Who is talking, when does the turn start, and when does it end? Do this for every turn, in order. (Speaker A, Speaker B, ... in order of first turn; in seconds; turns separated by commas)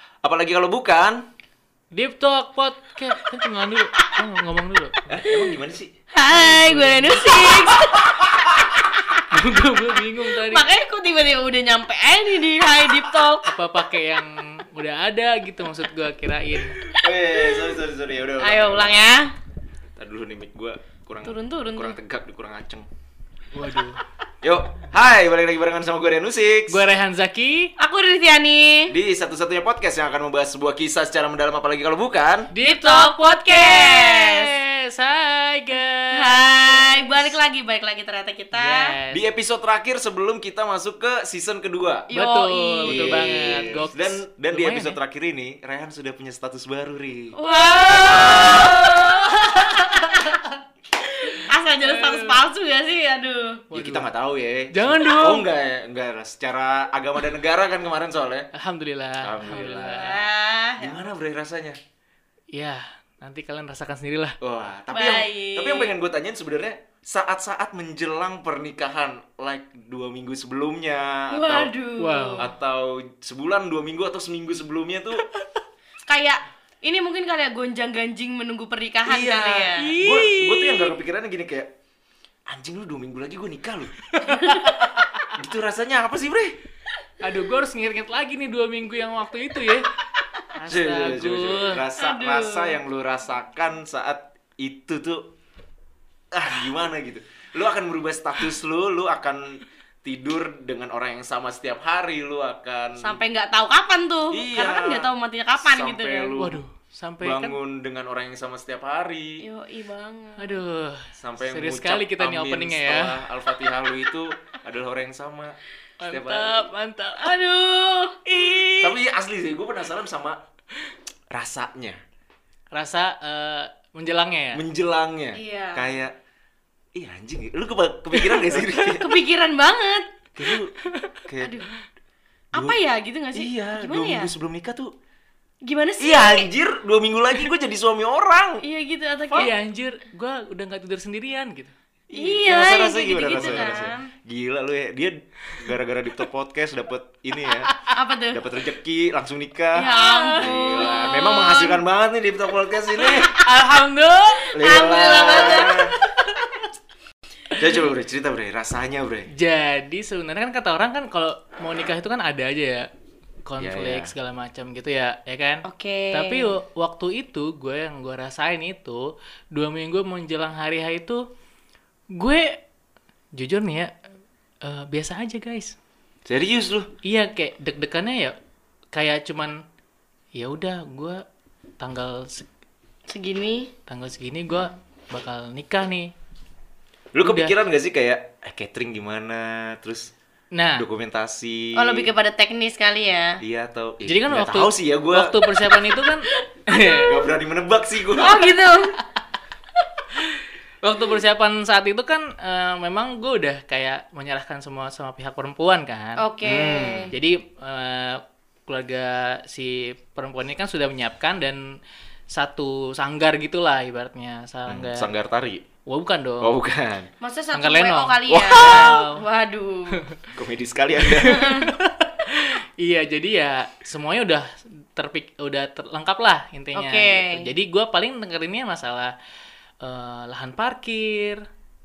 Speaker A: 0.2-1.2, Speaker B: 1.9-5.3, Speaker A: 5.1-5.9, Speaker C: 6.1-9.2, Speaker B: 6.3-7.5, Speaker B: 9.3-10.7, Speaker C: 10.0-13.4, Speaker B: 13.4-16.8, Speaker A: 16.9-19.1, Speaker C: 17.3-17.8, Speaker C: 18.4-19.3, Speaker A: 20.0-22.9, Speaker C: 21.2-22.0, Speaker B: 23.5-24.0, Speaker A: 24.4-26.8, Speaker B: 26.7-27.7, Speaker C: 27.8-28.9, Speaker A: 28.9-32.5, Speaker B: 32.5-37.3, Speaker C: 32.6-34.5, Speaker C: 36.1-38.9, Speaker B: 38.5-39.2, Speaker A: 39.1-42.1, Speaker C: 42.1-43.8, Speaker B: 42.1-45.0, Speaker A: 42.9-47.4, Speaker C: 47.4-50.3, Speaker B: 47.4-50.6, Speaker C: 51.0-53.6, Speaker B: 51.3-52.5, Speaker B: 53.7-54.1, Speaker A: 53.7-58.5, Speaker B: 54.7-55.5, Speaker B: 58.5-60.2, Speaker A: 59.2-60.2, Speaker C: 59.5-61.0, Speaker A: 60.8-61.8, Speaker B: 62.5-64.4, Speaker A: 64.4-71.7, Speaker C: 64.9-65.9, Speaker C: 71.3-72.5, Speaker B: 72.0-72.5, Speaker A: 72.4-75.2, Speaker C: 76.1-79.9, Speaker A: 79.1-81.7, Speaker B: 79.8-81.0, Speaker A: 82.5-84.0, Speaker B: 84.1-85.2, Speaker C: 84.3-84.8, Speaker A: 85.3-86.6, Speaker B: 87.2-89.9, Speaker B: 90.5-91.8, Speaker A: 90.7-95.3, Speaker C: 92.0-92.8, Speaker A: 96.3-103.2, Speaker C: 103.0-106.4, Speaker A: 104.3-106.6, Speaker B: 106.4-107.5, Speaker A: 107.2-109.4, Speaker C: 109.4-110.6, Speaker B: 110.4-113.2, Speaker A: 111.2-116.6, Speaker B: 116.0-117.4, Speaker C: 117.2-118.2, Speaker B: 118.3-119.0, Speaker A: 118.8-120.4, Speaker A: 121.3-122.0, Speaker B: 122.7-124.6, Speaker A: 124.5-126.2, Speaker C: 125.3-125.9, Speaker A: 127.0-129.2, Speaker C: 128.9-130.1, Speaker A: 130.3-130.7, Speaker B: 130.8-131.2, Speaker A: 131.3-131.6, Speaker C: 131.4-131.7, Speaker C: 132.5-134.3, Speaker A: 133.3-134.9, Speaker C: 135.6-136.5, Speaker A: 136.0-138.6, Speaker C: 138.6-139.5, Speaker B: 139.3-141.7, Speaker A: 142.1-147.7, Speaker C: 142.2-144.1, Speaker B: 143.4-143.8, Speaker B: 147.4-147.9, Speaker C: 147.9-148.4, Speaker A: 148.3-153.4, Speaker C: 149.8-151.8, Speaker B: 149.9-151.1, Speaker B: 153.0-154.7, Speaker A: 154.5-155.9, Speaker C: 154.6-155.8, Speaker B: 155.6-156.7, Speaker A: 157.6-159.3, Speaker B: 159.4-162.9, Speaker B: 163.5-171.2, Speaker A: 163.6-164.1, Speaker C: 165.7-166.6, Speaker B: 172.2-172.6, Speaker B: 173.4-173.9, Speaker B: 174.6-175.8, Speaker A: 176.3-176.9, Speaker B: 177.0-178.4, Speaker B: 178.9-179.6, Speaker B: 180.4-181.2, Speaker B: 181.8-182.5, Speaker C: 183.1-183.7, Speaker B: 183.9-186.1, Speaker A: 187.1-190.1, Speaker B: 187.2-187.5, Speaker B: 190.5-190.8, Speaker A: 190.8-192.1, Speaker C: 191.8-193.4, Speaker A: 193.4-195.4, Speaker B: 194.1-197.1, Speaker C: 195.6-197.3, Speaker A: 197.1-198.6, Speaker C: 198.1-199.0, Speaker B: 200.2-206.2, Speaker C: 206.2-207.1, Speaker A: 206.4-207.1, Speaker B: 207.1-211.8, Speaker B: 212.3-215.1, Speaker A: 214.7-215.6, Speaker B: 215.9-216.6, Speaker A: 216.4-217.1, Speaker C: 217.2-220.0, Speaker B: 217.5-219.2, Speaker A: 218.3-218.9, Speaker A: 220.3-221.4, Speaker B: 221.1-229.1, Speaker C: 221.2-221.7, Speaker C: 226.8-227.5, Speaker B: 229.8-231.4